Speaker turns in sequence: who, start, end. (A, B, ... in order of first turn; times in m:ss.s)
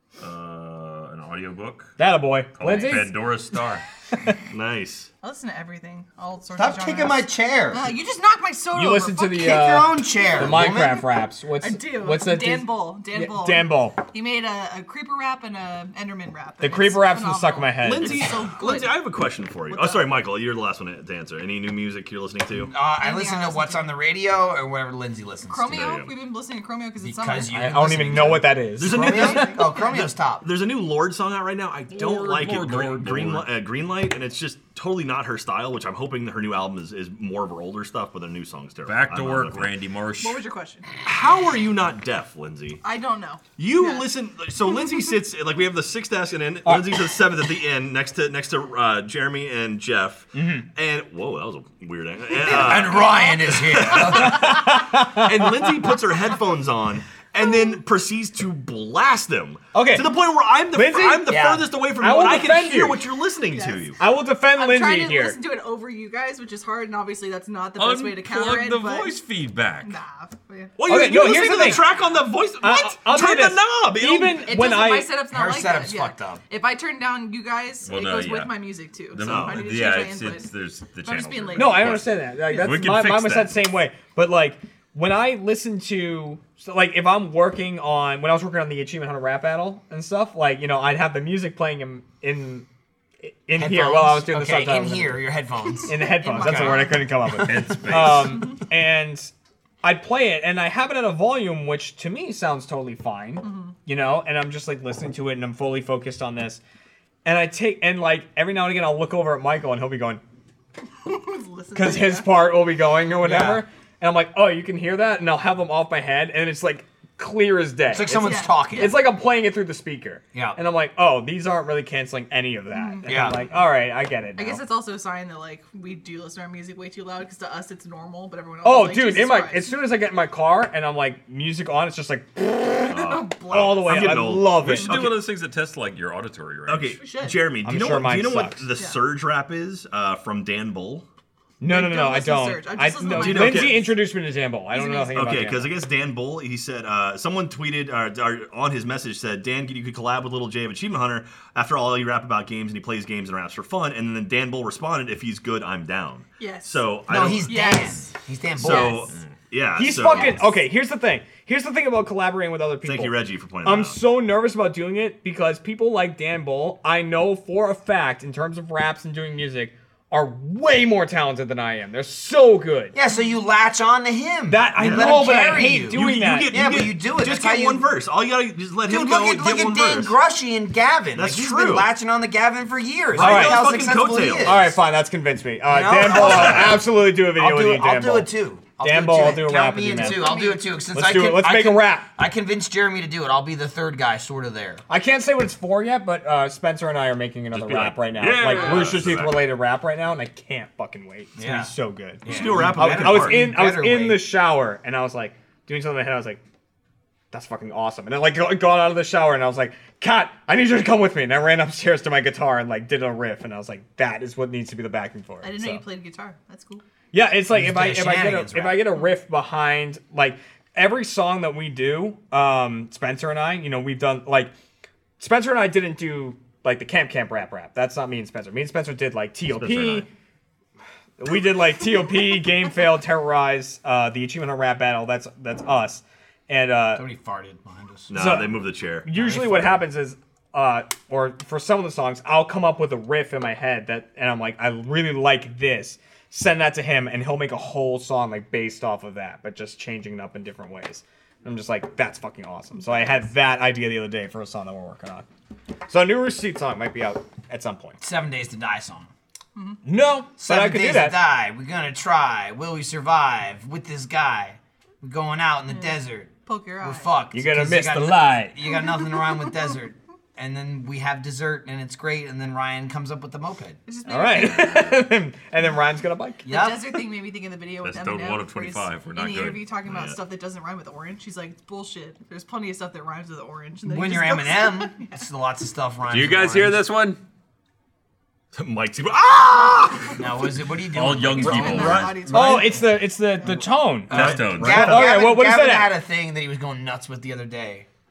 0:00.2-0:01.9 A
0:02.0-0:03.3 B
0:02.5-0:03.8 A
0:04.5-0:05.1 C
0:05.2-0:09.7 D
0:06.5-0:07.9 E
0:08.7-0:14.0 B
0:09.3-0:11.1 E
0:11.6-0:19.0 D
0:16.6-0:18.3 B
0:17.8-0:22.7 C
0:19.7-0:20.0 D
0:22.6-0:25.8 E
0:22.8-0:23.9 D
0:25.5-0:27.5 D
0:25.6-0:26.1 C
0:27.0-0:30.4 E
0:27.5-0:29.6 B
0:28.2-0:39.7 C
0:31.9-0:33.5 A
0:38.8-0:40.4 A
0:40.2-0:40.9 D
0:41.0-0:42.8 C
0:42.8-0:44.1 D
0:43.6-1:04.0 C
0:46.6-0:46.9 B
0:50.3-0:50.6 B
0:52.3-0:54.6 E
0:53.0-0:53.4 D
0:54.0-0:55.9 B
0:59.7-1:00.1 B
1:00.7-1:03.0 B
1:01.2-1:01.7 E
1:03.5-1:09.2 D
1:04.0-1:05.4 B
1:07.8-1:10.0 A
1:09.8-1:11.0 D
1:10.8-1:14.6 C
1:10.8-1:11.9 B
1:12.6-1:15.1 B
1:14.4-1:22.8 D
1:15.3-1:16.4 E
1:17.8-1:23.7 A
1:19.2-1:19.7 C
1:21.5-1:32.6 B
1:33.2-1:35.2 B
1:33.6-1:36.9 E
1:35.8-1:37.6 D
1:35.9-1:39.3 B
1:37.3-1:38.4 A
1:38.2-1:38.6 D
1:39.8-1:46.6 B
1:43.4-1:43.7 D
1:47.2-1:50.2 B
1:51.0-1:52.5 D
1:51.7-2:04.6 B
1:53.2-1:53.6 E
1:57.8-1:59.0 E
1:58.1-1:59.0 D
2:00.3-2:00.6 E
2:02.7-2:03.0 D
2:03.0-2:03.4 E
2:04.4-2:09.8 D
2:08.6-2:15.1 B
2:12.9-2:14.3 D
2:12.9-2:15.3 C
2:14.6-2:17.1 A
2:16.7-2:21.0 C
2:17.0-2:17.4 D
2:17.6-2:18.7 B
2:21.6-2:25.7 B
2:21.6-2:23.9 D
2:23.1-2:24.0 C
2:24.7-2:25.1 D
2:25.1-2:37.7 C
2:36.4-2:39.0 D
2:37.1-2:39.1 E
2:38.6-2:40.5 C
2:39.8-2:53.0 B
2:42.8-2:44.0 C
2:52.9-2:57.9 E
2:54.5-2:56.6 B
2:54.8-3:00.2 C
2:58.9-3:04.6 E
3:01.1-3:01.9 C
3:03.1-3:04.7 C
3:03.2-3:03.6 B
3:04.4-3:10.4 B
3:05.7-3:14.8 E
3:06.0-3:06.8 C
3:09.8-3:10.8 D
3:10.9-3:12.1 B
3:14.9-3:26.4 B
3:17.5-3:19.5 A
3:18.2-3:19.3 C
3:21.4-3:21.7 E
3:22.2-3:23.5 C
3:22.2-3:24.2 E
3:27.3-3:35.8 B
3:35.4-3:36.8 D
3:37.1-3:44.5 B
3:37.5-3:39.0 E
3:45.2-3:50.1 B
3:49.6-3:50.0 A
3:51.2-3:57.1 B
3:57.0-3:58.4 E
3:58.1-3:59.7 C
3:58.1-4:15.2 B
4:15.9-4:18.0 B
4:18.0-4:19.1 E
4:19.8-4:21.2 B
4:20.4-4:26.3 E
4:25.7-4:27.1 D
4:26.8-4:33.8 E
4:27.3-4:28.6 B
4:28.6-4:29.7 D
4:33.9-4:35.0 D
4:34.1-4:36.6 B
4:36.4-4:37.0 E
4:36.4-4:45.2 D
4:37.8-4:39.8 A
4:39.9-4:40.2 C
4:43.8-4:46.8 E
4:46.1-4:47.2 A
4:48.5-4:50.1 C
4:50.2-4:52.2 E
4:50.8-4:52.6 A
4:51.3-4:52.8 D
4:51.5-4:52.6 C
4:52.3-4:55.9 B
4:54.1-4:54.8 C
4:54.1-4:55.2 A
4:54.1-4:57.9 E